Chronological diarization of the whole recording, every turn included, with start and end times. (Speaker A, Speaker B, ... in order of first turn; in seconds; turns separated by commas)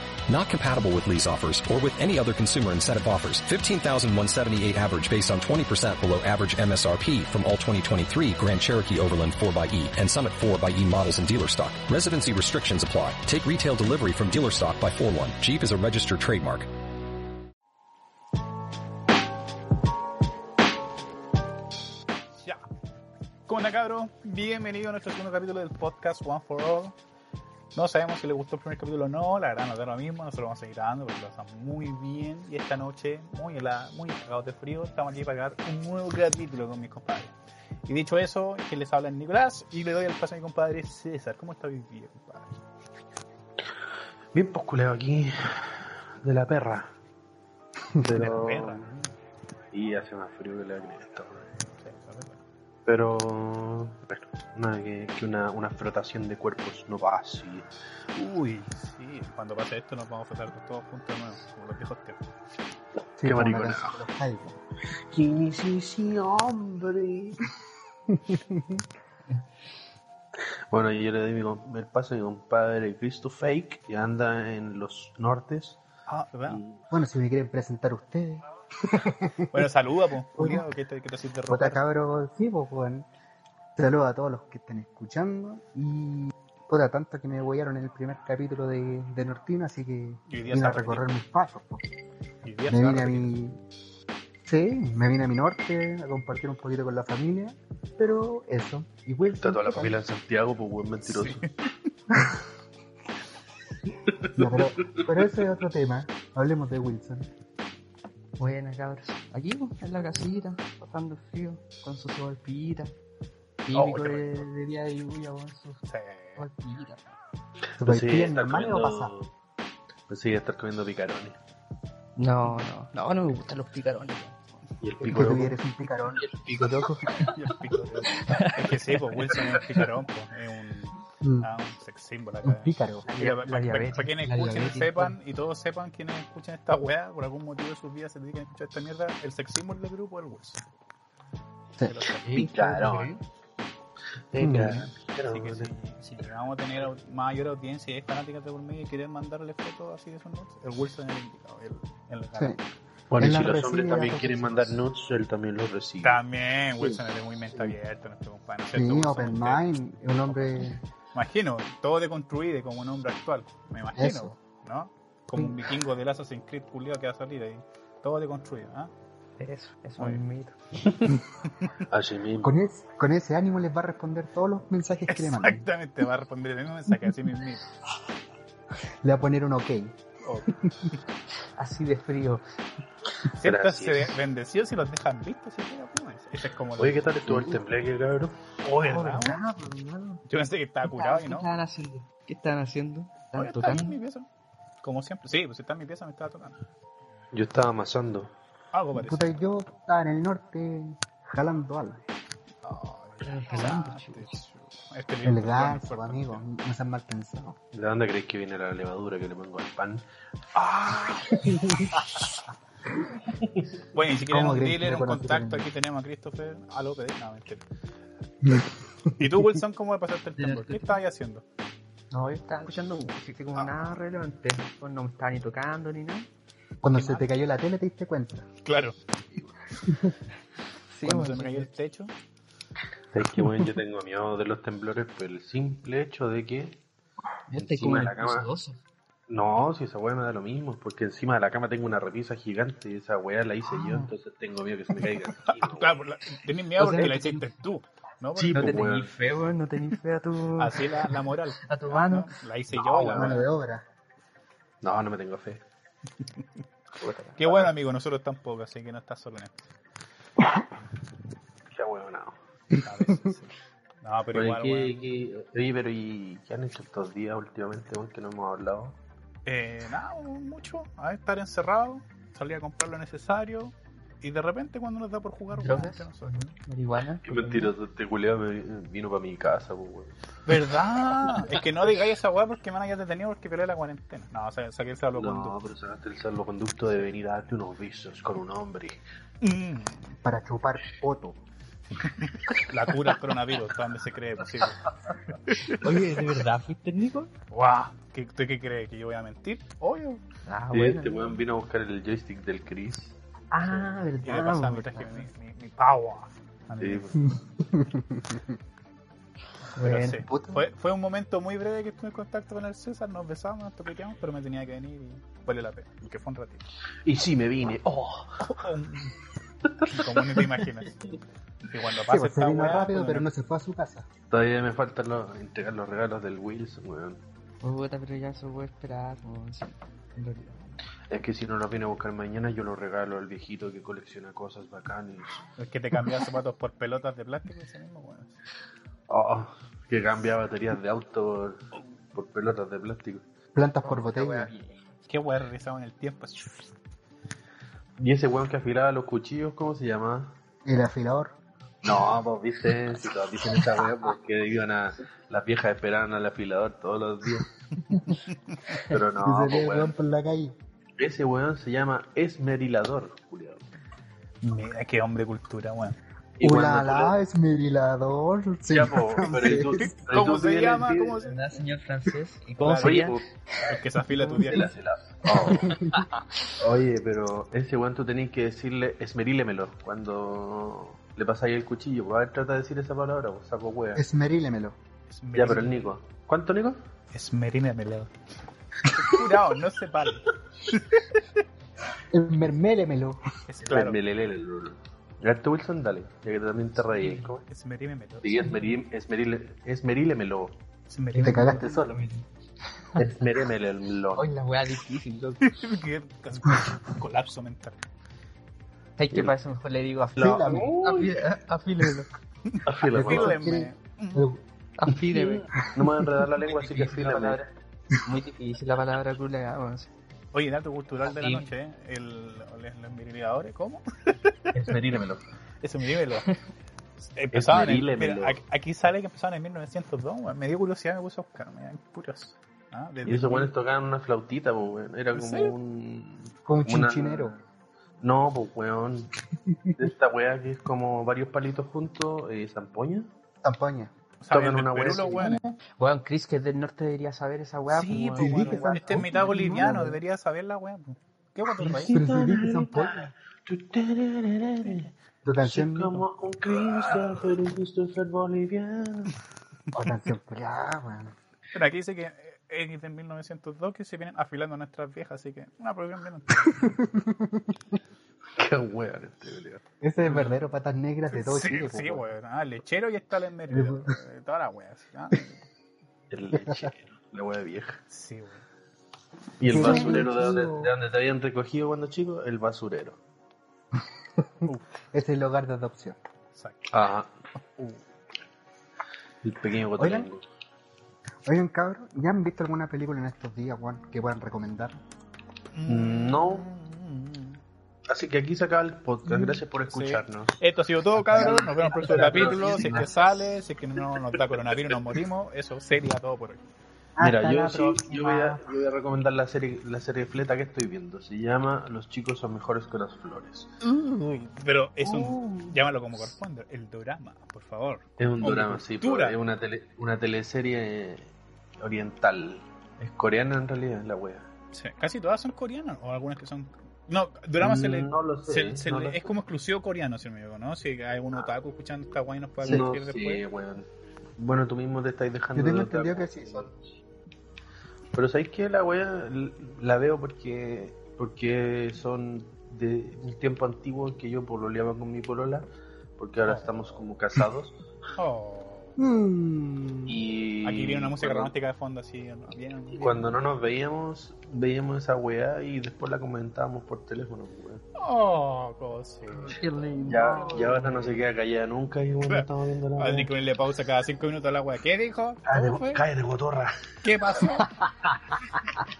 Speaker A: 0.3-16.7, Speaker B: 22.3-22.6, Speaker B: 23.5-26.9, Speaker B: 27.7-37.3, Speaker B: 37.9-42.5, Speaker C: 44.3-46.9, Speaker C: 48.0-48.9, Speaker B: 48.1-49.0, Speaker C: 49.7-51.5, Speaker B: 51.8-52.4, Speaker C: 52.9-57.7, Speaker B: 58.1-62.2, Speaker D: 63.2-64.5, Speaker C: 63.2-64.0, Speaker C: 65.1-67.5, Speaker D: 68.1-68.8, Speaker C: 70.7-75.8, Speaker B: 76.1-76.6, Speaker C: 76.5-76.8, Speaker D: 76.9-79.7, Speaker B: 79.5-81.8, Speaker D: 80.3-80.7, Speaker D: 81.5-83.1, Speaker D: 83.8-91.8, Speaker B: 90.3-91.0, Speaker B: 92.4-93.3, Speaker D: 92.7-93.6, Speaker D: 94.4-100.0, Speaker C: 99.3-101.5, Speaker B: 101.0-101.7, Speaker D: 102.1-102.4, Speaker C: 104.0-105.0, Speaker D: 104.3-107.3, Speaker E: 108.4-112.9, Speaker E: 113.6-115.8, Speaker B: 113.7-114.5, Speaker B: 115.8-116.5, Speaker E: 116.4-117.1, Speaker C: 117.7-119.3, Speaker D: 117.8-119.1, Speaker C: 120.1-121.4, Speaker E: 122.2-124.6, Speaker C: 124.8-125.6, Speaker D: 125.0-126.3, Speaker E: 126.1-129.8, Speaker B: 127.2-140.6, Speaker D: 131.2-131.5, Speaker D: 132.4-133.1, Speaker E: 133.1-135.2, Speaker B: 141.8-142.5, Speaker E: 142.2-143.2, Speaker C: 142.3-143.1, Speaker C: 144.3-145.7, Speaker D: 144.4-144.9, Speaker E: 144.4-144.8, Speaker B: 145.2-152.7, Speaker C: 153.1-156.2, Speaker D: 153.2-154.8, Speaker B: 156.0-159.6, Speaker D: 158.7-160.8, Speaker B: 160.2-168.9, Speaker D: 163.9-164.3, Speaker E: 169.4-170.6, Speaker C: 170.8-171.2, Speaker C: 171.8-172.5, Speaker D: 172.4-175.7, Speaker B: 175.1-177.6, Speaker D: 179.0-180.9, Speaker B: 180.2-180.5, Speaker E: 181.6-182.4, Speaker B: 183.3-187.0, Speaker C: 183.4-184.1, Speaker C: 186.8-188.4, Speaker B: 188.6-189.4, Speaker E: 188.8-190.2, Speaker B: 190.3-191.5, Speaker E: 190.9-193.9, Speaker B: 193.3-194.2, Speaker B: 194.8-196.6, Speaker C: 197.3-198.3, Speaker B: 198.7-199.4, Speaker D: 198.9-202.0, Speaker B: 202.6-206.4, Speaker E: 203.2-204.3, Speaker D: 205.2-207.6, Speaker C: 207.7-210.0, Speaker B: 210.6-211.2, Speaker B: 213.9-217.6, Speaker D: 214.2-215.7, Speaker D: 218.4-219.6, Speaker B: 219.2-221.4, Speaker E: 220.4-220.9, Speaker E: 222.1-226.3, Speaker D: 226.8-228.5, Speaker B: 226.9-227.2, Speaker B: 228.6-228.9, Speaker E: 230.9-231.7, Speaker B: 231.0-232.1, Speaker C: 233.1-236.8, Speaker E: 237.5-238.8, Speaker C: 237.6-238.5, Speaker C: 239.3-246.0, Speaker E: 243.7-244.1, Speaker B: 245.0-248.9, Speaker E: 246.8-247.5, Speaker C: 248.3-249.1, Speaker E: 248.5-252.3, Speaker B: 250.6-253.5, Speaker C: 252.7-253.4, Speaker D: 253.0-253.8, Speaker C: 254.8-255.6, Speaker E: 257.0-257.7, Speaker B: 257.4-259.5, Speaker C: 261.7-262.3, Speaker B: 262.8-265.0, Speaker C: 264.3-268.9, Speaker B: 269.4-276.5, Speaker E: 275.5-277.7, Speaker C: 277.2-280.1, Speaker B: 280.4-285.6, Speaker C: 285.1-289.0, Speaker B: 289.4-290.1, Speaker D: 290.2-291.4, Speaker B: 292.0-296.1, Speaker E: 295.7-297.3, Speaker C: 296.1-296.4, Speaker B: 297.5-300.2, Speaker E: 300.4-301.4, Speaker C: 300.7-303.2, Speaker E: 303.5-305.3, Speaker B: 304.2-307.3, Speaker C: 306.8-307.2, Speaker D: 307.3-308.4, Speaker E: 309.7-310.3, Speaker B: 309.8-316.6, Speaker D: 310.3-310.6, Speaker C: 317.0-318.4, Speaker B: 318.4-319.1, Speaker C: 319.6-320.4, Speaker B: 319.9-321.1, Speaker B: 321.7-323.3, Speaker D: 322.1-324.1, Speaker C: 324.3-327.2, Speaker E: 327.6-330.8, Speaker C: 331.1-335.4, Speaker B: 335.6-338.4, Speaker C: 339.1-341.6, Speaker C: 342.1-343.2, Speaker D: 343.5-344.5, Speaker E: 343.8-344.8, Speaker B: 345.1-346.7, Speaker C: 348.0-350.4, Speaker D: 350.6-351.3, Speaker C: 351.8-357.5, Speaker C: 358.8-359.9, Speaker D: 359.2-360.6, Speaker C: 361.0-363.7, Speaker B: 364.4-366.0, Speaker C: 366.4-367.1, Speaker D: 366.4-369.9, Speaker C: 368.7-371.2, Speaker B: 369.4-371.3, Speaker E: 371.2-373.2, Speaker B: 372.6-374.7, Speaker C: 372.8-373.2, Speaker E: 374.1-374.7, Speaker C: 374.4-375.8, Speaker E: 375.3-376.5, Speaker D: 375.5-376.0, Speaker C: 376.6-384.0, Speaker D: 383.9-384.8, Speaker B: 385.1-385.9, Speaker C: 385.3-386.8, Speaker B: 387.1-388.1, Speaker B: 388.9-391.2, Speaker D: 392.1-393.2, Speaker B: 393.5-394.0, Speaker C: 393.6-397.4, Speaker E: 396.9-397.2, Speaker B: 397.5-398.7, Speaker C: 398.2-400.5, Speaker B: 400.9-401.6, Speaker E: 401.1-402.2, Speaker D: 401.2-402.0, Speaker C: 402.9-404.3, Speaker E: 404.1-405.5, Speaker B: 405.4-407.8, Speaker E: 409.0-412.1, Speaker D: 410.2-410.8, Speaker C: 410.2-411.2, Speaker B: 412.4-414.2, Speaker C: 412.6-413.4, Speaker D: 412.9-414.4, Speaker E: 414.8-415.5, Speaker C: 415.1-417.4, Speaker D: 415.6-416.1, Speaker E: 416.4-417.4, Speaker E: 418.0-419.9, Speaker B: 420.3-424.8, Speaker E: 421.0-421.5, Speaker C: 424.5-425.2, Speaker B: 425.6-426.3, Speaker B: 427.0-433.5, Speaker C: 427.3-428.4, Speaker C: 433.0-437.4, Speaker B: 435.1-435.5, Speaker D: 436.4-437.4, Speaker C: 438.0-439.1, Speaker C: 439.8-443.1, Speaker D: 443.4-443.9, Speaker B: 444.2-445.5, Speaker C: 444.3-445.3, Speaker D: 445.0-445.3, Speaker E: 445.8-448.8, Speaker B: 447.7-452.0, Speaker D: 448.2-450.0, Speaker C: 448.9-449.7, Speaker C: 451.6-459.2, Speaker D: 451.6-453.1, Speaker D: 455.2-456.1, Speaker D: 459.7-461.1, Speaker B: 461.5-466.5, Speaker D: 466.4-467.6, Speaker C: 468.4-469.6, Speaker D: 469.8-472.0, Speaker B: 471.1-475.4, Speaker D: 473.5-474.0, Speaker C: 476.1-477.8, Speaker D: 476.4-476.7, Speaker B: 477.9-478.4, Speaker C: 479.4-483.0, Speaker D: 479.4-480.7, Speaker B: 479.6-480.1, Speaker D: 484.2-486.0, Speaker B: 486.3-486.7, Speaker C: 486.7-487.1, Speaker B: 487.6-487.8, Speaker C: 489.2-490.2, Speaker D: 489.8-490.1, Speaker D: 491.2-494.8, Speaker B: 495.5-497.4, Speaker C: 495.7-496.4, Speaker C: 497.9-500.4, Speaker D: 499.1-499.4, Speaker B: 499.6-506.4, Speaker C: 501.1-502.9, Speaker D: 502.0-502.5, Speaker E: 502.4-502.8, Speaker C: 503.9-504.8, Speaker D: 506.9-508.4, Speaker C: 507.0-513.5, Speaker B: 513.6-519.2, Speaker E: 514.8-515.2, Speaker C: 518.0-524.3, Speaker B: 524.5-533.2, Speaker C: 527.4-529.0, Speaker C: 532.4-536.7, Speaker D: 532.4-532.7, Speaker D: 535.3-536.5, Speaker C: 537.9-545.5, Speaker C: 546.0-547.6, Speaker B: 546.2-546.7, Speaker B: 548.0-548.8, Speaker D: 548.8-550.0, Speaker C: 549.9-551.3, Speaker B: 550.4-553.1, Speaker C: 552.7-557.6, Speaker B: 557.8-559.3, Speaker E: 559.1-561.0, Speaker C: 559.2-563.1, Speaker B: 562.1-565.8, Speaker C: 565.2-566.6, Speaker B: 566.8-567.5, Speaker E: 567.6-568.4